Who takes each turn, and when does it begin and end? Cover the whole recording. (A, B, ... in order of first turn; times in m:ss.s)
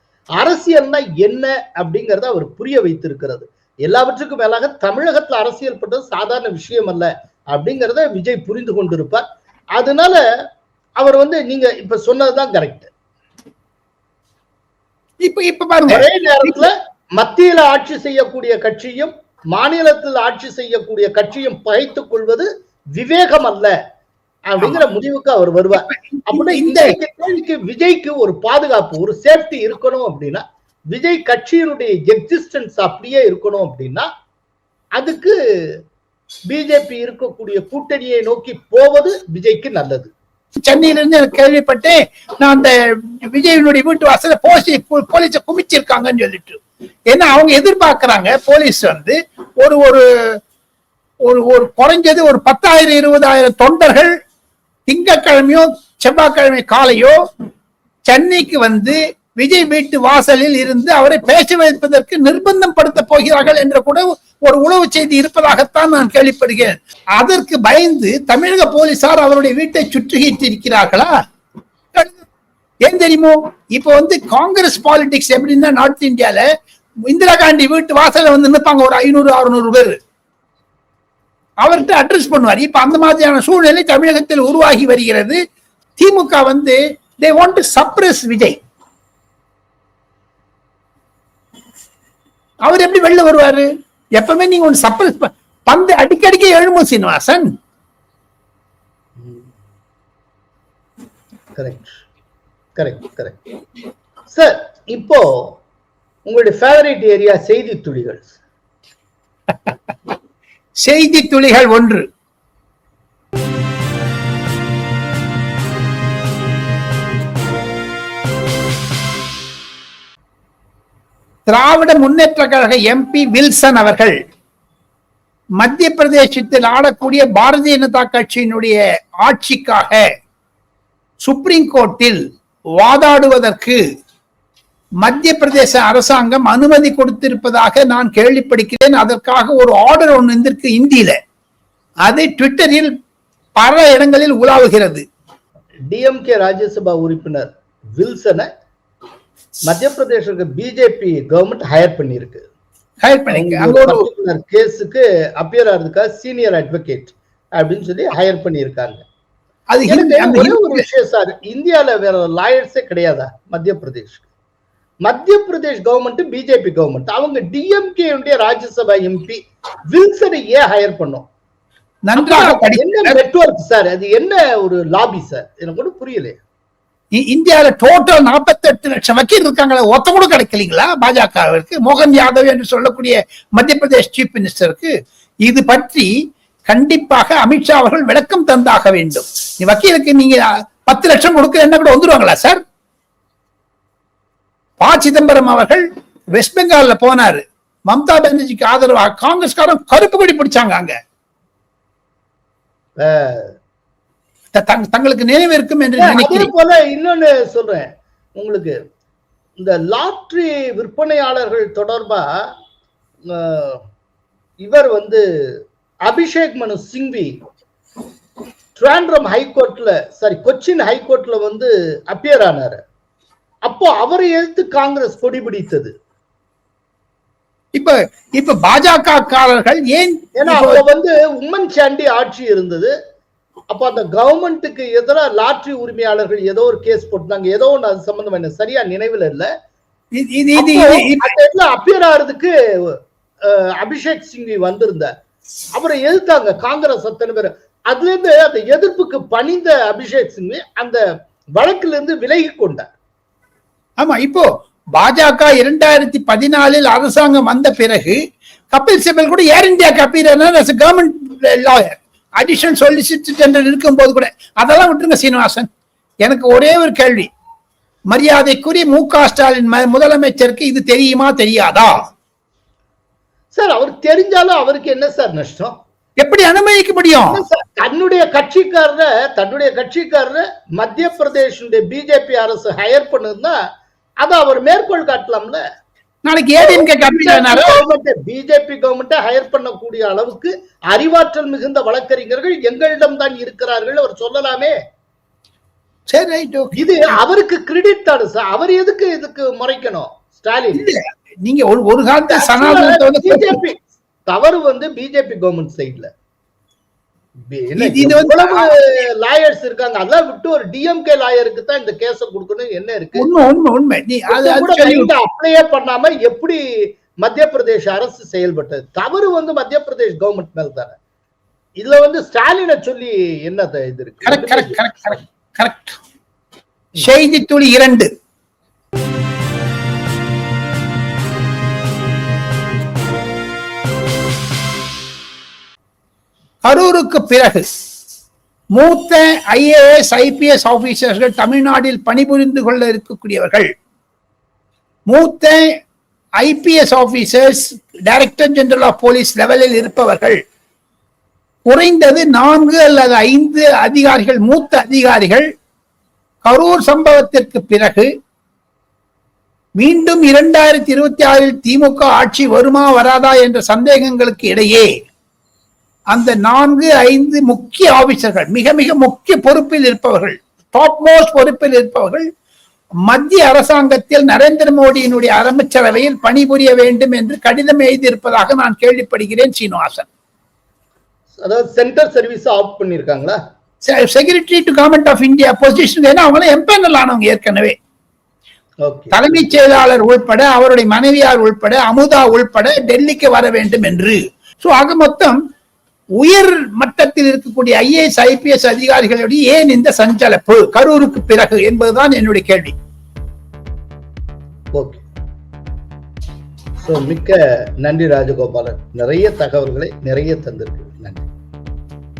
0:00.4-0:10.2 A
0:11.0-0:12.9 A
0:15.2-0:16.6 B
0:15.9-0:23.7 A
0:24.5-0:34.1 A
0:25.8-0:27.0 B
0:35.0-0:35.8 A
0:36.5-0:40.1 A
0:40.6-0:50.0 B
0:51.3-0:54.2 B
0:54.9-0:57.2 B
0:58.1-1:11.1 B
1:12.8-1:16.4 B
1:17.1-1:20.0 B
1:21.6-1:25.4 B
1:26.0-1:28.6 B
1:32.7-1:37.5 B
1:39.2-1:39.5 A
1:41.6-1:42.0 A
1:42.8-1:43.4 A
1:44.3-1:45.6 A
1:46.3-1:48.4 A
1:50.8-1:52.1 B
2:01.5-2:04.2 B
2:05.6-2:10.0 B
2:11.2-2:12.2 B
2:12.8-2:13.8 B
2:15.0-2:21.2 B
2:22.1-2:22.9 B
2:23.6-2:25.0 B
2:25.9-2:28.5 A
2:29.7-2:32.4 A
2:33.0-2:34.1 B
2:33.3-2:39.0 A
2:39.7-2:40.9 B
2:39.9-2:44.2 A
2:45.0-2:51.3 A
2:52.1-2:53.2 B
2:52.2-2:56.4 A
2:57.2-3:04.9 B
3:05.5-3:06.1 B
3:06.7-3:12.6 B
3:14.8-3:21.0 B
3:23.0-3:23.5 A
3:24.5-3:26.5 B
3:26.0-3:28.8 A
3:29.6-3:32.5 A
3:33.3-3:33.8 A
3:34.6-3:37.4 A
3:38.8-3:42.8 A
3:43.6-3:45.9 A
3:47.8-3:50.8 B
3:50.4-3:52.9 A
3:53.7-3:59.5 A
4:00.2-4:01.3 B
4:00.6-4:05.1 A
4:05.8-4:11.0 A
4:11.6-4:12.9 A
4:14.0-4:14.5 B
4:15.0-4:18.2 B
4:18.7-4:25.7 B
4:26.2-4:27.3 B
4:28.1-4:32.0 B
4:33.5-4:35.8 A
4:36.2-4:37.4 B
4:37.3-4:43.6 A
4:44.2-4:45.6 A
4:46.3-4:47.8 B
4:46.6-4:54.8 A
4:56.1-4:56.8 B
4:56.8-5:00.9 A
5:00.8-5:03.6 B
5:02.3-5:06.1 A
5:07.5-5:13.3 A
5:07.8-5:08.7 B
5:13.2-5:15.1 B
5:14.3-5:21.0 A
5:21.8-5:24.8 A
5:24.2-5:26.0 B
5:27.0-5:28.1 B
5:36.6-5:37.7 B
5:38.7-5:43.7 B
5:45.1-5:45.6 B
5:46.4-5:50.4 B
5:51.7-5:55.5 B
5:56.4-5:58.1 B
5:59.8-6:04.9 B
6:06.1-6:12.3 B
6:13.1-6:20.1 B
6:21.4-6:23.4 A
6:23.8-6:27.8 B
6:28.8-6:29.5 A
6:29.1-6:35.4 B
6:36.2-6:42.8 B
6:44.7-6:45.0 A
6:46.8-6:51.2 A